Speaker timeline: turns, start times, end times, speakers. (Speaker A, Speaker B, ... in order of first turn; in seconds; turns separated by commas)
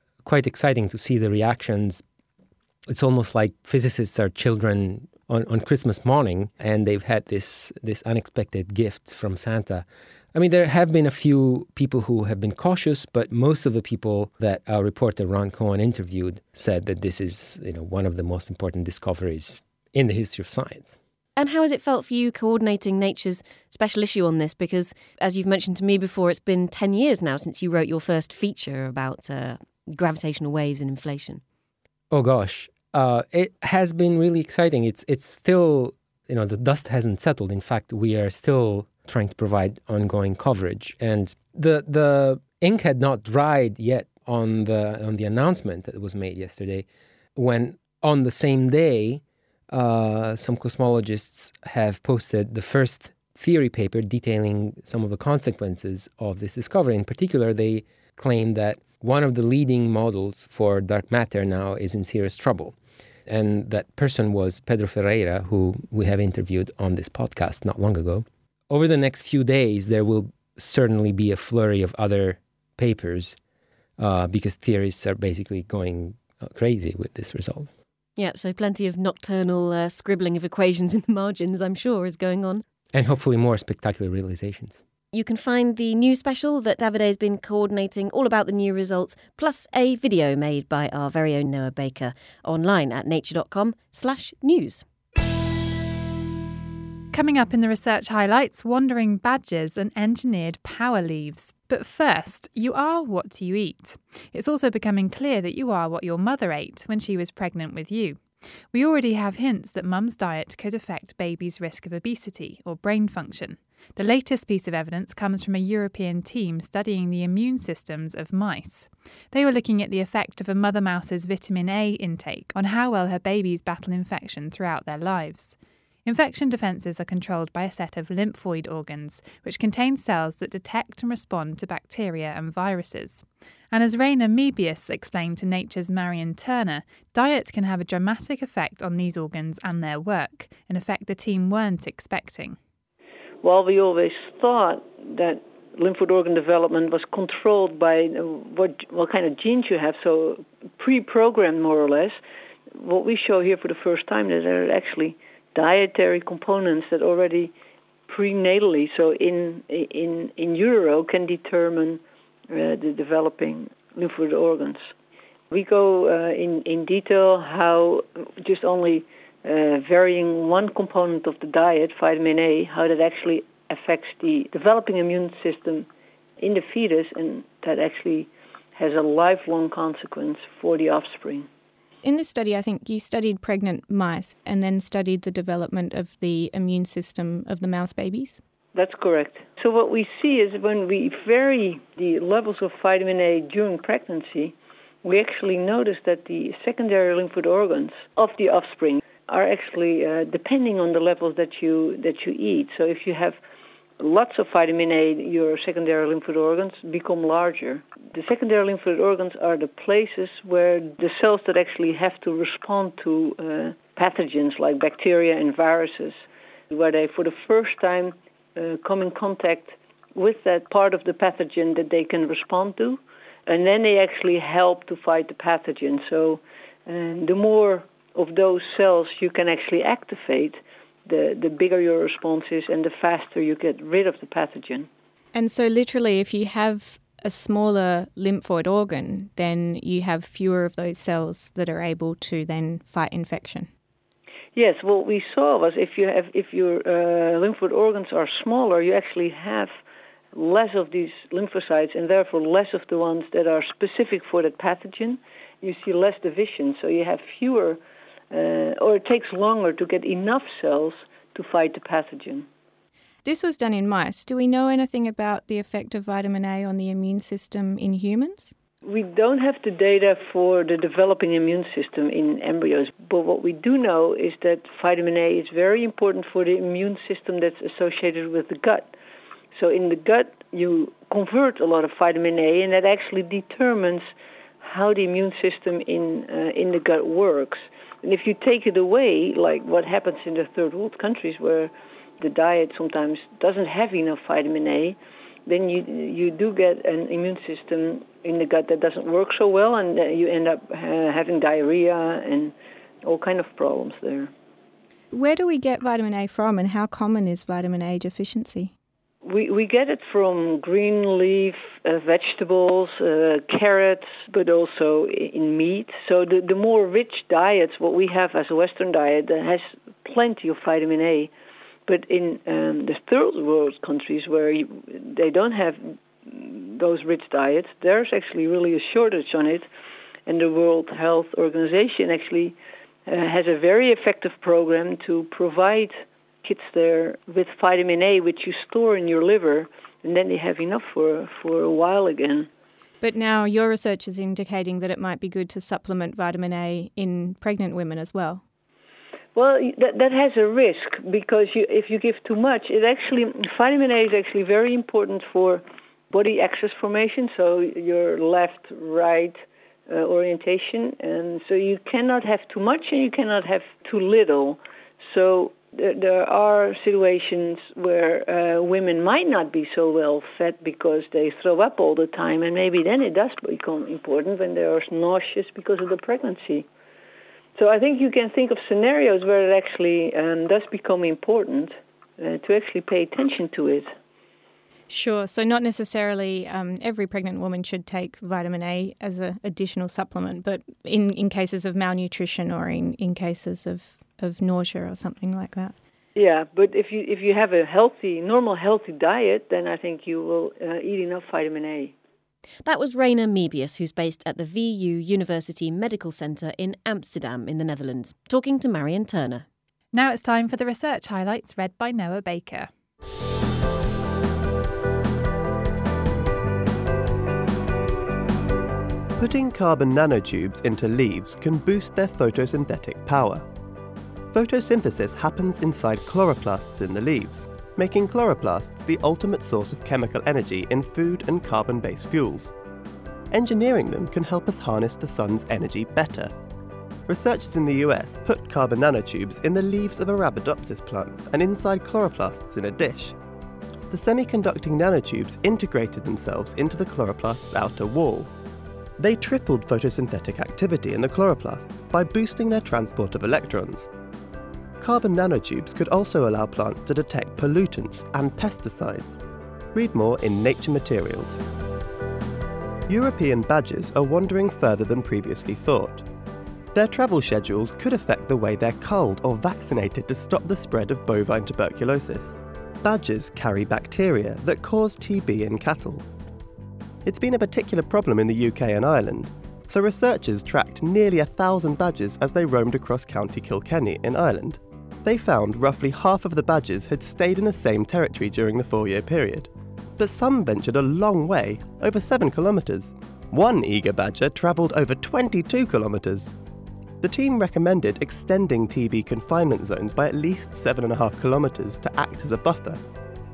Speaker A: 0.2-2.0, Speaker A: 2.9-20.9, Speaker B: 21.4-31.4, Speaker A: 32.1-62.8, Speaker A: 63.3-73.4, Speaker A: 74.0-77.7, Speaker B: 78.2-82.6, Speaker A: 82.9-84.8, Speaker B: 85.1-94.8, Speaker C: 97.1-108.2, Speaker C: 108.7-142.6, Speaker D: 143.4-152.2, Speaker D: 152.8-157.5, Speaker D: 158.1-164.9, Speaker D: 165.5-175.9, Speaker D: 176.4-181.5, Speaker E: 182.0-188.4, Speaker D: 188.8-203.4, Speaker D: 204.0-234.9, Speaker E: 235.3-243.7, Speaker D: 244.5-249.8, Speaker D: 250.3-262.5, Speaker E: 263.2-268.5, Speaker D: 268.8-278.9, Speaker D: 279.5-284.1, Speaker D: 284.6-304.3, Speaker E: 305.1-308.7, Speaker D: 309.2-321.3, Speaker D: 321.9-329.7, Speaker D: 330.2-342.5, Speaker E: 343.0-348.4, Speaker D: 349.4-376.7, Speaker D: 377.6-383.9, Speaker E: 384.9-395.8, Speaker D: 396.1-401.9, Speaker B: 402.6-409.4, Speaker C: 409.9-412.7, Speaker F: 419.2-423.5, Speaker F: 424.3-432.5, Speaker F: 433.3-436.3, Speaker F: 437.1-443.1, Speaker F: 443.9-448.3, Speaker F: 449.0-453.9, Speaker F: 454.8-459.2, Speaker F: 459.7-461.4, Speaker F: 462.9-466.0, Speaker F: 466.7-476.0, Speaker F: 477.0-496.4, Speaker F: 497.0-502.8